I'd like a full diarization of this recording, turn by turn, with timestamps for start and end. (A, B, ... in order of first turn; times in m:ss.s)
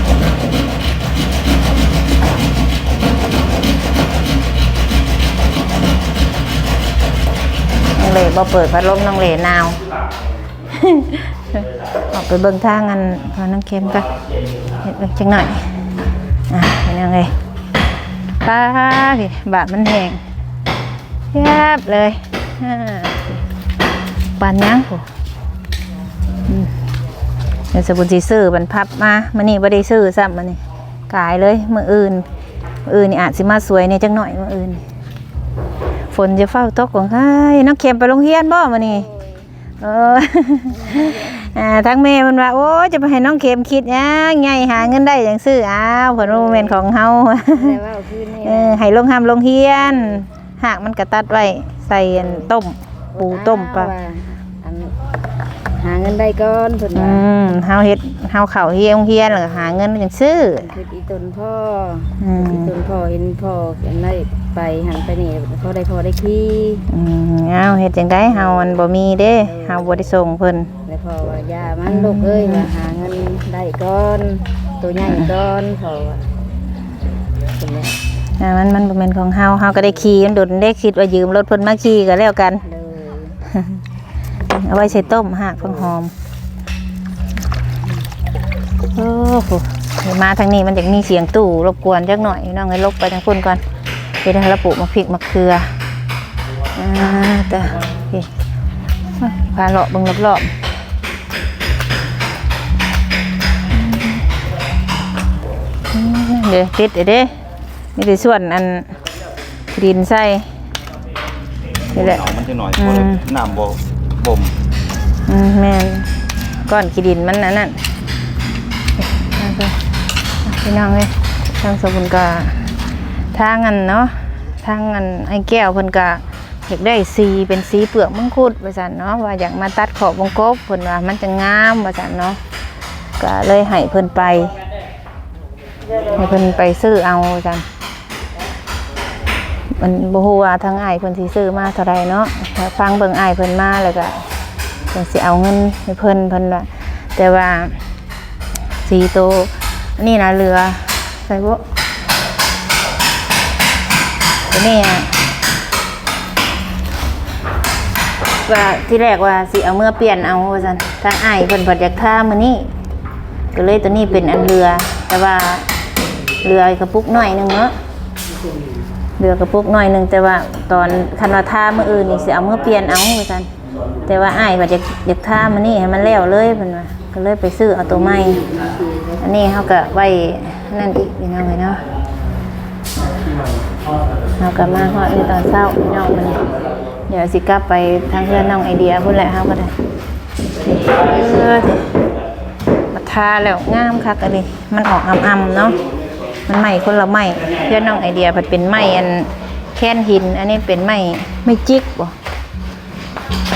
0:07.9-0:09.8 A
0:10.7-0:14.1 A
0:14.7-0:15.7 A
0:16.5-0:17.3 A
0:18.4-0:20.2 A
0:21.3-0:23.4 A
0:24.4-0:25.1 A
0:27.7-0:32.3 A
0:32.9-0:34.8 A
0:36.1-0:39.1 A
0:39.8-0:47.8 A
0:40.7-0:41.4 B
0:46.2-0:46.8 B
0:47.5-0:48.9 B
0:48.4-0:53.9 A
0:53.2-0:55.0 B
0:55.7-0:57.2 B
0:56.9-1:00.7 A
1:00.6-1:06.9 B
1:02.2-1:02.7 A
1:06.9-1:10.7 A
1:08.4-1:08.7 B
1:09.3-1:10.0 B
1:10.8-1:16.3 B
1:11.8-1:12.7 A
1:15.0-1:15.3 A
1:17.5-1:18.0 B
1:18.4-1:22.7 A
1:22.7-1:23.4 B
1:23.5-1:23.8 A
1:24.5-1:26.1 A
1:28.9-1:33.6 A
1:34.2-1:35.7 A
1:36.8-1:38.3 A
1:39.2-1:40.5 A
1:43.7-1:44.2 A
1:45.9-1:47.4 A
1:48.0-1:48.9 A
1:49.7-1:50.5 A
1:51.9-1:53.4 A
1:52.3-1:54.5 C
1:55.3-1:56.1 A
1:56.6-1:57.8 A
1:59.0-1:59.8 A
2:00.4-2:02.7 A
2:03.3-2:12.4 A
2:13.2-2:14.6 A
2:16.1-2:17.7 A
2:19.8-2:24.2 A
2:24.9-2:27.8 A
2:28.8-2:31.6 A
2:34.5-2:35.2 A
2:38.4-2:42.7 A
2:43.5-2:45.7 A
2:46.4-2:47.7 A
2:49.2-2:53.5 A
2:54.1-2:58.5 A
2:58.2-2:59.2 B
2:59.2-3:01.8 A
3:04.4-3:06.5 A
3:07.1-3:09.7 A
3:10.6-3:11.9 A
3:12.9-3:15.8 A
3:16.5-3:22.2 A